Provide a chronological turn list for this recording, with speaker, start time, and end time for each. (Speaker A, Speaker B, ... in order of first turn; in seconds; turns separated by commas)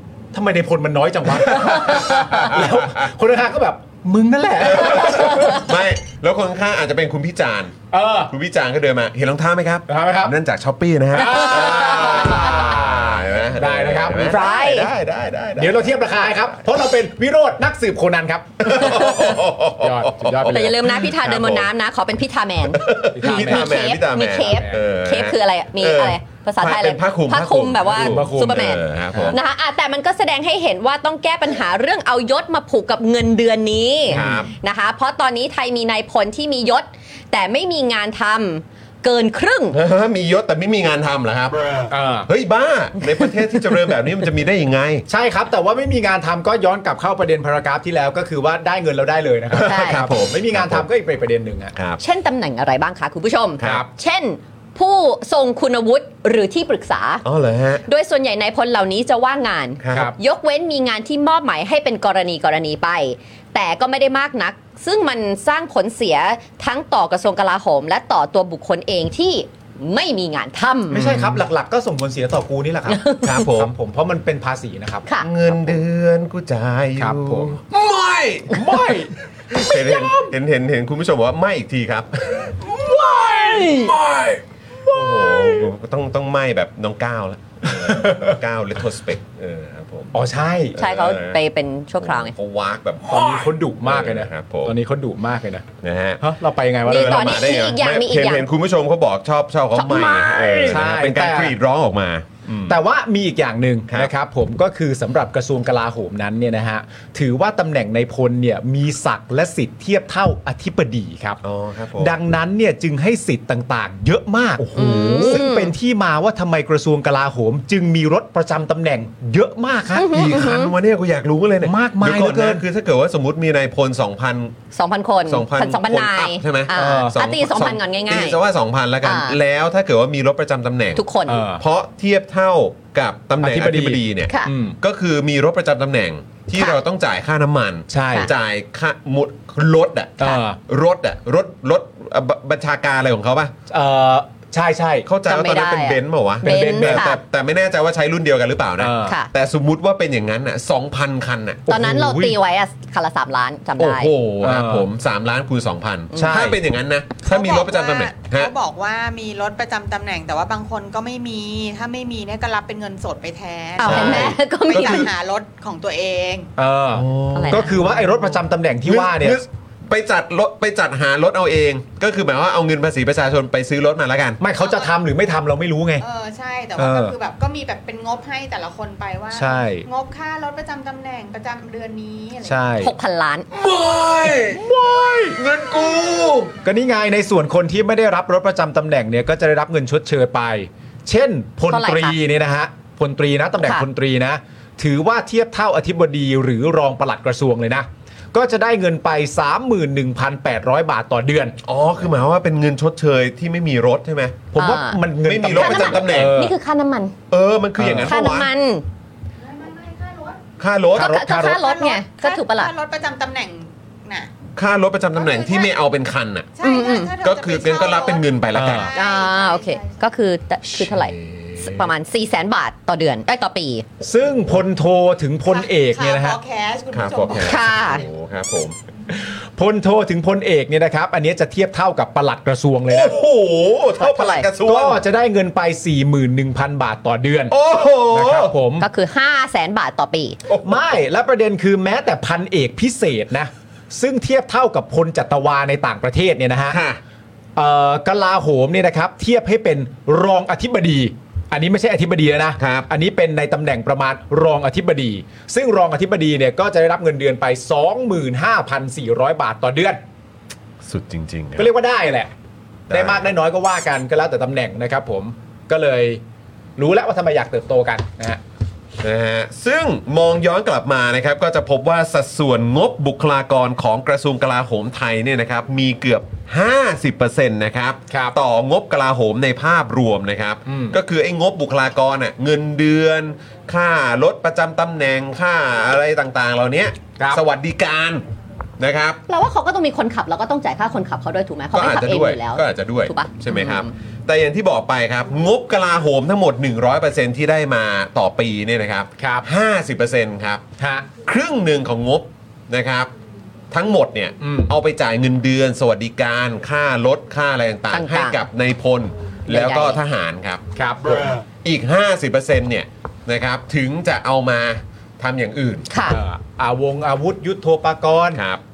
Speaker A: 0.3-5.7, Speaker B: 1.4-3.1, Speaker B: 4.7-16.2, Speaker A: 7.9-8.3, Speaker A: 9.9-10.3, Speaker A: 11.1-14.6, Speaker C: 14.1-14.9, Speaker A: 15.6-20.7, Speaker B: 18.6-21.7, Speaker C: 20.4-39.8, Speaker B: 22.7-29.4, Speaker A: 23.1-24.8, Speaker A: 27.9-29.4, Speaker B: 34.1-34.5, Speaker A: 34.1-34.5, Speaker B: 39.7-45.0, Speaker A: 41.9-42.3, Speaker A: 45.1-51.7, Speaker B: 49.5-50.9, Speaker C: 49.6-50.0, Speaker B: 51.7-52.0, Speaker C: 52.0-57.2, Speaker A: 53.6-53.9, Speaker B: 57.2-57.8, Speaker C: 57.9-71.1, Speaker B: 59.8-60.1, Speaker A: 70.9-75.8, Speaker B: 70.9-71.4, Speaker C: 72.9-73.5, Speaker B: 73.2-73.7, Speaker B: 75.2-90.2, Speaker A: 77.0-77.6, Speaker A: 78.5-80.3, Speaker A: 82.8-83.9, Speaker C: 83.6-83.9, Speaker A: 84.9-85.6, Speaker A: 87.7-88.4, Speaker A: 90.1-90.8, Speaker B: 90.7-91.4, Speaker C: 90.8-92.3, Speaker B: 92.0-94.8, Speaker A: 93.0-95.7, Speaker B: 95.8-96.3, Speaker A: 96.2-97.5, Speaker C: 96.8-98.5, Speaker B: 96.8-102.8, Speaker C: 99.7-100.8, Speaker A: 100.7-101.5, Speaker A: 102.7-111.4, Speaker B: 111.4-112.2, Speaker A: 112.0-120.3, Speaker C: 114.7-115.7, Speaker B: 115.1-115.4, Speaker C: 119.9-120.7, Speaker B: 120.1-124.6, Speaker A: 121.6-122.6, Speaker C: 124.7-128.4, Speaker B: 125.3-131.0, Speaker A: 126.7-127.2, Speaker C: 129.0-129.4, Speaker C: 130.9-131.4, Speaker A: 131.3-131.6, Speaker B: 131.6-143.5, Speaker A: 133.4-134.8, Speaker C: 134.3-134.5, Speaker A: 137.9-138.3, Speaker A: 140.2-140.6, Speaker A: 143.7-145.1, Speaker B: 145.0-151.7, Speaker C: 145.2-147.2, Speaker A: 146.4-147.1, Speaker A: 148.8-149.2, Speaker C: 149.0-149.3, Speaker A: 151.7-152.3, Speaker C: 151.7-154.1, Speaker B: 153.8-158.5, Speaker A: 154.4-154.9, Speaker C: 156.1-156.4, Speaker A: 156.1-156.6, Speaker D: 157.2-166.5, Speaker C: 163.8-165.1, Speaker B: 163.8-165.1, Speaker A: 166.6-169.4, Speaker B: 166.9-174.4, Speaker C: 167.3-167.8, Speaker A: 174.4-176.0, Speaker D: 174.5-174.9, Speaker D: 176.0-182.8, Speaker A: 176.8-177.2, Speaker A: 179.3-179.9, Speaker A: 182.4-182.9, Speaker C: 182.8-183.5, Speaker B: 183.5-184.6, Speaker A: 184.2-185.4, Speaker B: 185.4-186.5, Speaker A: 186.6-201.6, Speaker C: 191.7-192.2, Speaker C: 193.6-193.8, Speaker B: 201.6-204.5, Speaker A: 204.5-206.5, Speaker C: 204.5-207.1, Speaker B: 205.2-206.4, Speaker B: 207.3-208.5, Speaker A: 207.8-208.1, Speaker C: 208.0-208.8, Speaker D: 209.4-210.4, Speaker B: 210.6-211.1, Speaker A: 210.9-211.6, Speaker C: 210.9-212.7, Speaker D: 211.5-214.3, Speaker B: 214.6-216.5, Speaker D: 215.1-215.8, Speaker D: 216.6-220.1, Speaker C: 216.6-217.1, Speaker B: 217.2-218.9, Speaker A: 218.5-218.9, Speaker C: 218.9-223.8, Speaker B: 220.7-221.9, Speaker A: 224.0-226.4, Speaker D: 225.4-227.9, Speaker B: 226.9-228.8, Speaker C: 227.3-228.1, Speaker A: 229.1-233.2, Speaker B: 232.9-235.0, Speaker C: 234.0-234.5, Speaker A: 234.6-237.5, Speaker B: 237.5-238.5, Speaker A: 238.1-238.9, Speaker C: 238.8-240.4, Speaker B: 240.5-240.8, Speaker A: 240.6-246.8, Speaker B: 246.7-247.0, Speaker A: 247.6-260.0, Speaker B: 252.6-252.9, Speaker B: 260.8-261.7, Speaker A: 261.6-262.3, Speaker B: 262.9-263.2, Speaker A: 262.9-266.2, Speaker A: 266.8-268.4, Speaker B: 269.0-288.2, Speaker A: 278.1-278.4, Speaker A: 280.6-281.0, Speaker A: 287.1-287.4, Speaker B: 288.8-289.2, Speaker C: 289.3-293.9, Speaker B: 291.7-300.7, Speaker A: 299.2-299.4, Speaker A: 300.8-301.1, Speaker B: 301.2-303.1, Speaker B: 303.7-310.6, Speaker A: 304.4-304.7, Speaker C: 307.9-308.4, Speaker C: 309.5-310.0, Speaker A: 310.7-311.3, Speaker B: 311.6-315.9, Speaker C: 315.9-316.2, Speaker A: 316.1-318.4, Speaker B: 318.3-318.6